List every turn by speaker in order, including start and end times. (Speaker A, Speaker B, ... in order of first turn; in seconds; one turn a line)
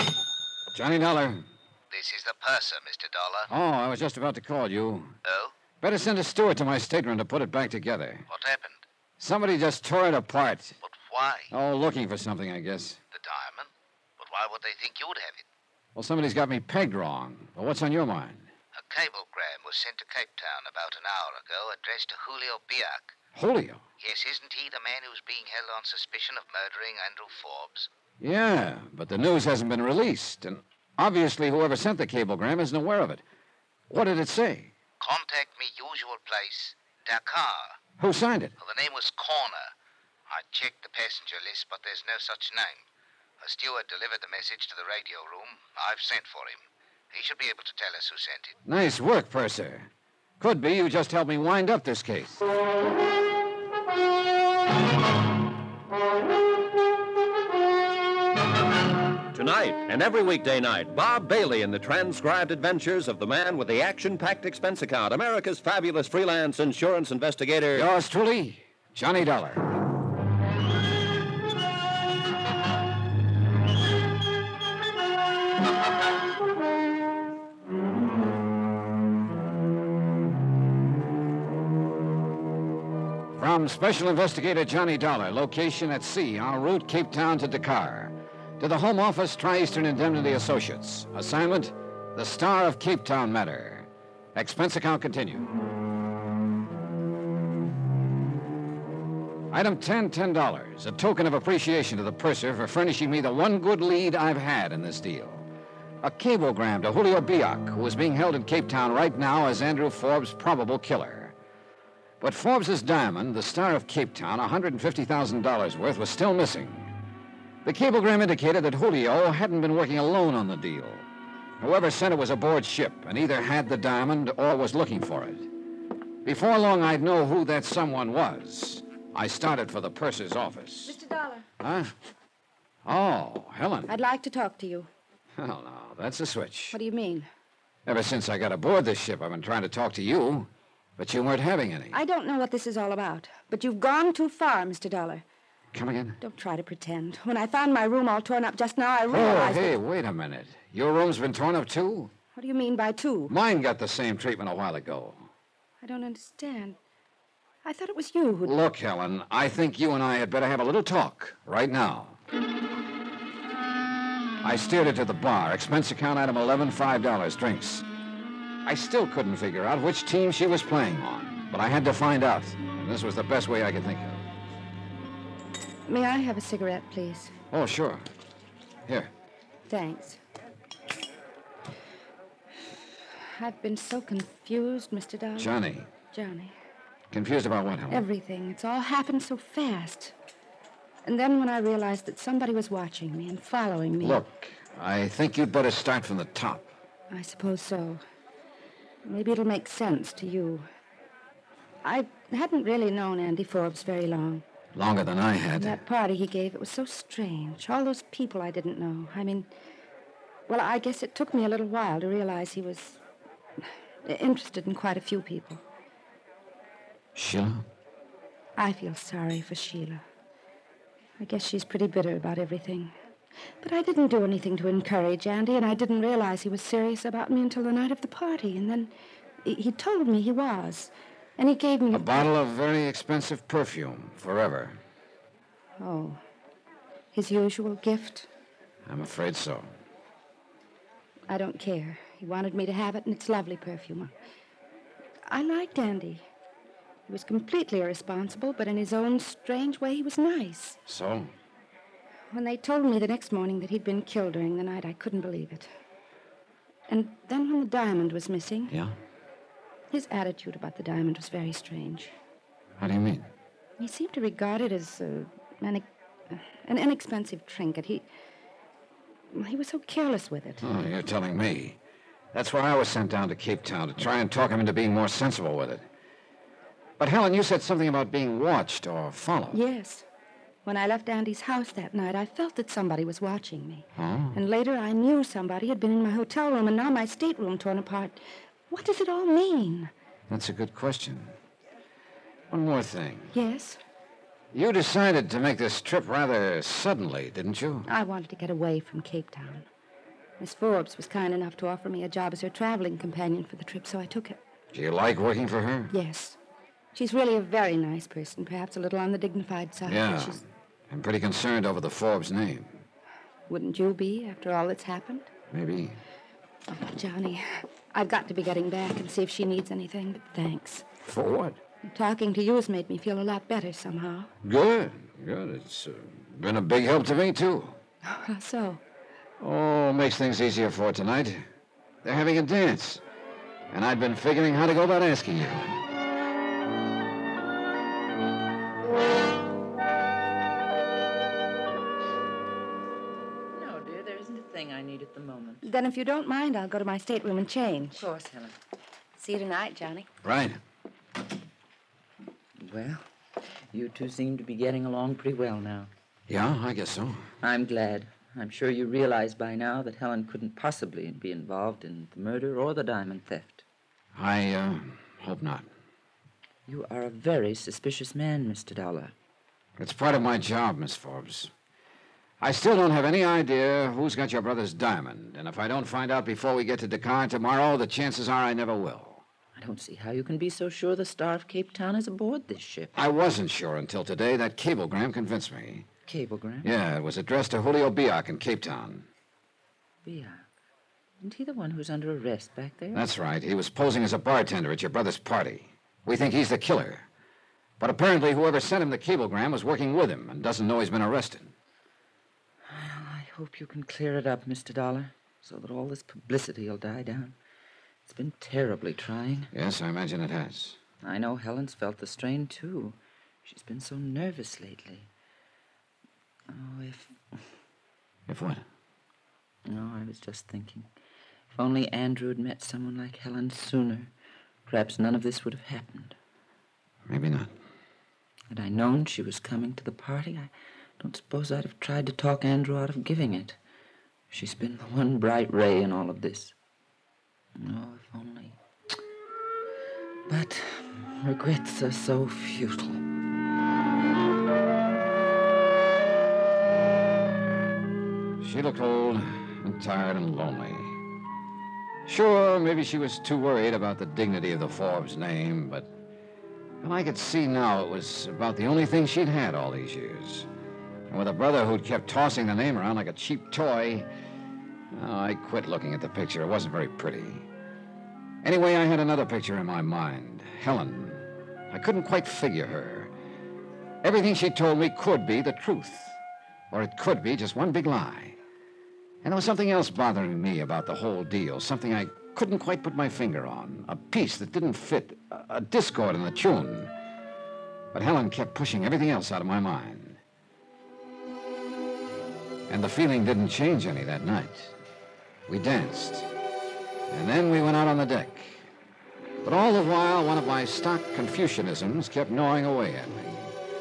Speaker A: 0.7-1.4
Speaker B: 1.9-3.5
Speaker A: 3.5-5.1
Speaker B: 5.2-5.5
Speaker A: 5.8-8.3
Speaker B: 8.3-8.8
Speaker A: 9.2-10.8
Speaker B: 10.8-11.5
Speaker A: 11.5-13.0
Speaker B: 13.1-15.4
Speaker A: 15.9-18.5
Speaker B: 18.8-23.1
Speaker A: 23.3-23.8
Speaker B: 24.0-27.9
Speaker A: 28.2-33.2
Speaker A: 33.9-34.7
Speaker B: 35.0-37.8
Speaker A: 38.0-38.5
Speaker B: 38.6-39.7
Speaker B: 40.3-42.8
Speaker B: 43.4-48.5
Speaker A: 48.7-49.9
Speaker A: 50.4-52.4
Speaker C: 59.3-67.9
Speaker A: 67.7-69.6
Speaker A: 83.3-95.5
Speaker A: 99.5-105.5
Speaker A: 106.0-111.3
Speaker A: 112.2-116.9
Speaker A: 117.6-121.0
Speaker A: 121.6-125.5
Speaker A: 126.2-131.0
Speaker D: 130.8-131.5
Speaker A: 131.6-131.9
Speaker A: 132.8-134.0
Speaker D: 133.9-134.9
Speaker A: 135.4-136.8
Speaker D: 136.7-137.3
Speaker A: 137.8-142.0
Speaker D: 141.9-145.2
Speaker A: 145.7-146.2
Speaker D: 146.2-149.8
Speaker A: 149.1-152.1
Speaker D: 152.3-153.3
Speaker A: 153.3-155.3
Speaker D: 155.8-156.8
Speaker D: 157.6-158.6
Speaker A: 158.4-162.2
Speaker A: 164.4-167.8
Speaker A: 168.6-174.2
Speaker D: 175.8-177.3
Speaker A: 177.5-178.0
Speaker D: 179.7-180.2
Speaker D: 183.2-185.6
Speaker A: 185.4-185.9
Speaker D: 186.1-186.6
Speaker A: 187.1-188.0
Speaker D: 187.9-190.2
Speaker D: 191.0-194.3
Speaker A: 194.0-196.7
Speaker D: 197.1-198.0
Speaker D: 199.0-200.6
Speaker D: 201.8-204.4
Speaker A: 204.7-205.8
Speaker D: 205.6-209.5
Speaker D: 210.5-213.0
Speaker D: 213.6-215.6
Speaker A: 217.2-217.6
Speaker D: 218.6-220.0
Speaker D: 221.2-222.9
Speaker D: 223.6-232.3
Speaker A: 231.9-234.8
Speaker D: 235.8-236.2
Speaker D: 237.1-238.3
Speaker A: 238.8-239.7
Speaker D: 241.3-244.2
Speaker D: 245.2-246.3
Speaker D: 247.1-250.8
Speaker A: 250.9-251.3
Speaker D: 252.3-255.7
Speaker D: 256.9-258.8
Speaker A: 258.7-258.9
Speaker D: 259.9-262.1
Speaker A: 262.8-263.3
Speaker D: 263.8-268.1
Speaker D: 269.3-270.7
Speaker A: 270.6-271.8
Speaker A: 272.3-275.8
Speaker A: 277.0-279.6
Speaker D: 279.5-280.1
Speaker D: 280.6-289.9
Speaker A: 284.0-284.4
Speaker A: 290.3-291.3
Speaker A: 292.5-293.3
Speaker D: 293.3-293.8
Speaker A: 294.5-297.9
Speaker D: 297.9-299.7
Speaker D: 300.4-304.4
Speaker A: 304.7-305.9
Speaker D: 305.9-306.4
Speaker D: 306.9-310.4
Speaker A: 309.9-312.8
Speaker D: 313.5-315.3
Speaker A: 315.5-316.0
Speaker D: 316.7-320.9
Speaker A: 321.0-321.6
Speaker D: 321.8-324.3
Speaker A: 324.4-327.8
Speaker D: 328.0-328.8
Speaker A: 329.4-331.4
Speaker A: 332.0-333.0
Speaker A: 333.7-335.8
Speaker E: 343.5-345.6
Speaker D: 345.6-348.1
Speaker E: 347.9-348.6
Speaker D: 349.2-350.1
Speaker A: 350.2-350.6
Speaker E: 352.6-353.0
Speaker E: 353.7-355.9
Speaker A: 356.3-357.3
Speaker E: 357.4-363.6
Speaker A: 364.1-365.6
Speaker E: 366.7-369.1
Speaker A: 369.8-371.5
Speaker A: 372.4-379.2
Speaker E: 379.6-383.0
Speaker A: 382.9-385.9
Speaker E: 386.1-386.7
Speaker A: 386.6-389.1
Speaker E: 390.0-390.4
Speaker E: 391.2-393.1
Speaker A: 392.9-397.1
Speaker A: 397.8-401.5
Speaker E: 402.7-407.4
Speaker E: 408.1-409.5
Speaker A: 409.5-410.8
Speaker E: 411.0-415.1
Speaker E: 416.5-417.2
Speaker A: 418.3-418.6
Speaker E: 419.7-420.9
Speaker E: 421.5-424.1
Speaker E: 424.7-426.1
Speaker A: 427.1-427.5
Speaker E: 428.5-433.6
Speaker E: 434.3-436.5
Speaker E: 437.6-438.6
Speaker E: 440.3-443.0
Speaker A: 448.4-451.0
Speaker A: 452.1-455.9
Speaker A: 456.8-460.5
Speaker A: 461.1-464.1
Speaker A: 464.9-467.5
Speaker A: 468.4-473.1
Speaker A: 474.0-476.2
Speaker A: 476.7-478.4
Speaker A: 479.2-486.9
Speaker A: 487.9-490.2
Speaker A: 492.7-494.7
Speaker A: 495.5-496.3
Speaker A: 497.1-498.7
Speaker A: 499.4-503.5